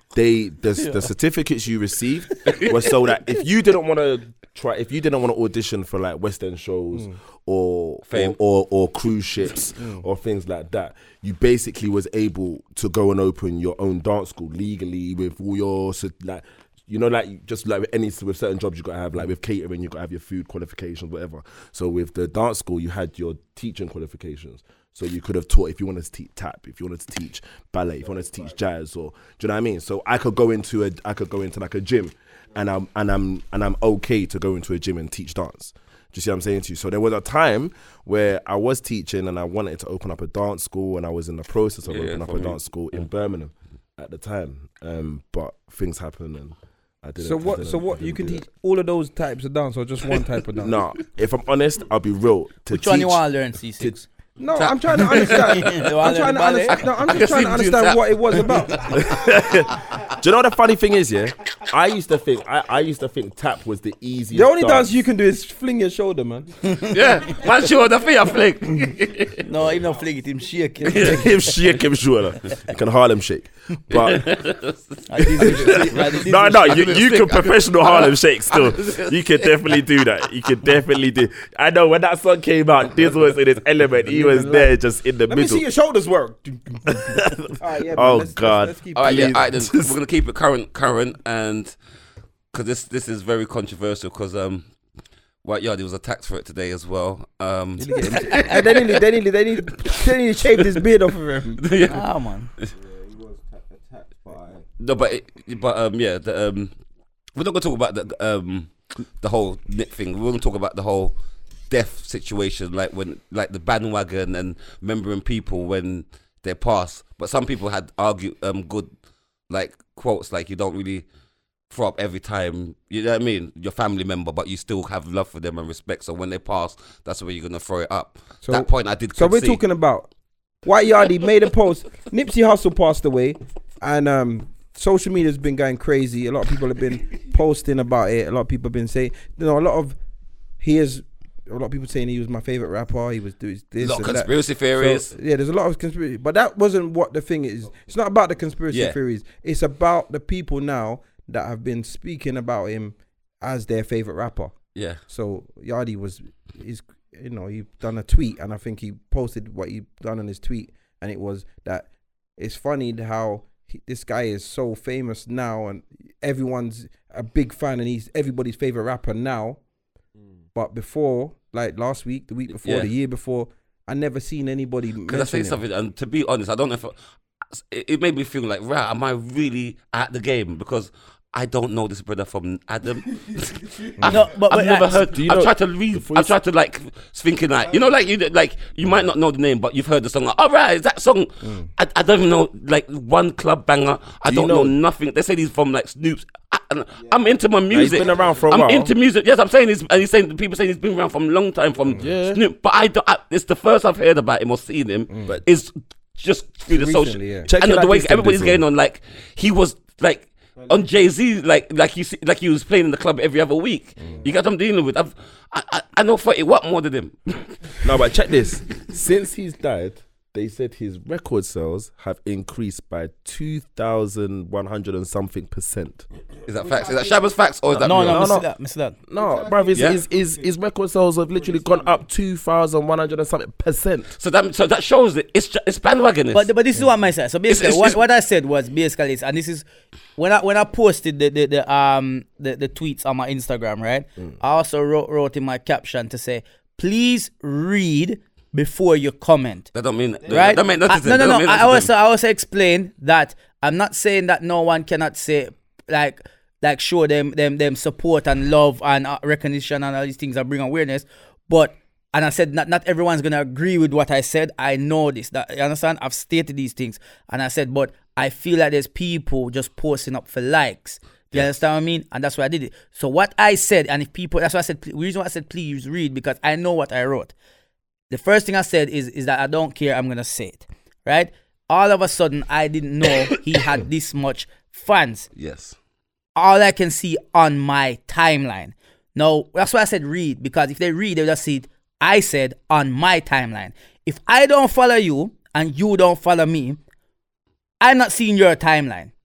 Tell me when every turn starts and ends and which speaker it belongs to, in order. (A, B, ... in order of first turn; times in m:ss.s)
0:00.1-0:48.4 A
0:02.4-0:02.8 B
0:08.1-0:08.4 B
0:28.0-0:28.6 C
0:41.8-0:43.0 B
0:47.2-0:50.8 D
0:50.6-0:53.2 A
0:52.7-0:54.0 E
0:53.8-0:54.0 A
0:54.4-0:59.0 D
0:54.6-0:55.6 B
0:55.0-0:56.8 E
0:56.9-0:59.0 B
0:58.8-1:00.3 C
0:58.9-1:04.9 A
1:04.3-1:06.5 D
1:06.8-1:09.5 B
1:07.2-1:10.2 C
1:09.4-1:11.5 E
1:10.8-1:11.2 B
1:11.0-1:14.3 A
1:13.9-1:14.8 B
1:15.1-1:16.9 E
1:15.3-1:25.6 A
1:15.4-1:19.2 B
1:24.0-1:24.7 D
1:25.3-1:29.4 D
1:26.9-1:30.0 A
1:28.9-1:31.7 B
1:32.5-1:34.6 B
1:35.4-1:39.0 B
1:37.8-1:41.6 D
1:41.6-1:42.0 B
1:41.9-1:42.5 E
1:42.7-1:44.6 C
1:44.8-1:46.7 B
1:47.3-1:51.1 B
1:51.7-1:58.9 B
1:59.5-2:01.0 B
2:01.7-2:09.6 B
2:08.4-2:10.1 D
2:10.6-2:20.0 D
2:20.6-2:34.5 D
2:23.8-2:25.1 B
2:28.7-2:29.0 B
2:35.1-2:49.6 D
2:50.2-2:50.4 C
2:50.5-2:55.6 D
2:52.6-2:52.9 B
2:55.1-2:57.0 B
2:57.5-3:37.8 B
3:03.3-3:04.2 C
3:04.0-3:05.0 E
3:05.1-3:06.3 A
3:07.6-3:07.9 C
3:14.2-3:14.7 A
3:16.9-3:18.6 C
3:17.7-3:18.9 A
3:21.9-3:22.4 A
3:26.7-3:27.5 D
3:27.4-3:28.6 A
3:30.6-3:31.0 C
3:37.8-3:46.0 A
3:46.5-3:48.3 B
3:46.5-3:47.4 C
3:47.8-3:48.5 A
3:47.8-3:49.0 E
3:49.0-3:54.2 A
3:49.1-3:50.6 C
3:51.3-3:52.1 C
3:54.2-3:56.5 B
3:56.3-3:59.6 E
3:57.5-3:58.0 B
4:00.2-4:09.7 E
4:09.7-4:11.9 B
4:10.2-4:10.8 C
4:10.3-4:37.3 E
4:38.1-4:45.3 E
4:45.4-4:45.7 B
4:46.3-4:56.8 E
4:57.8-4:59.1 E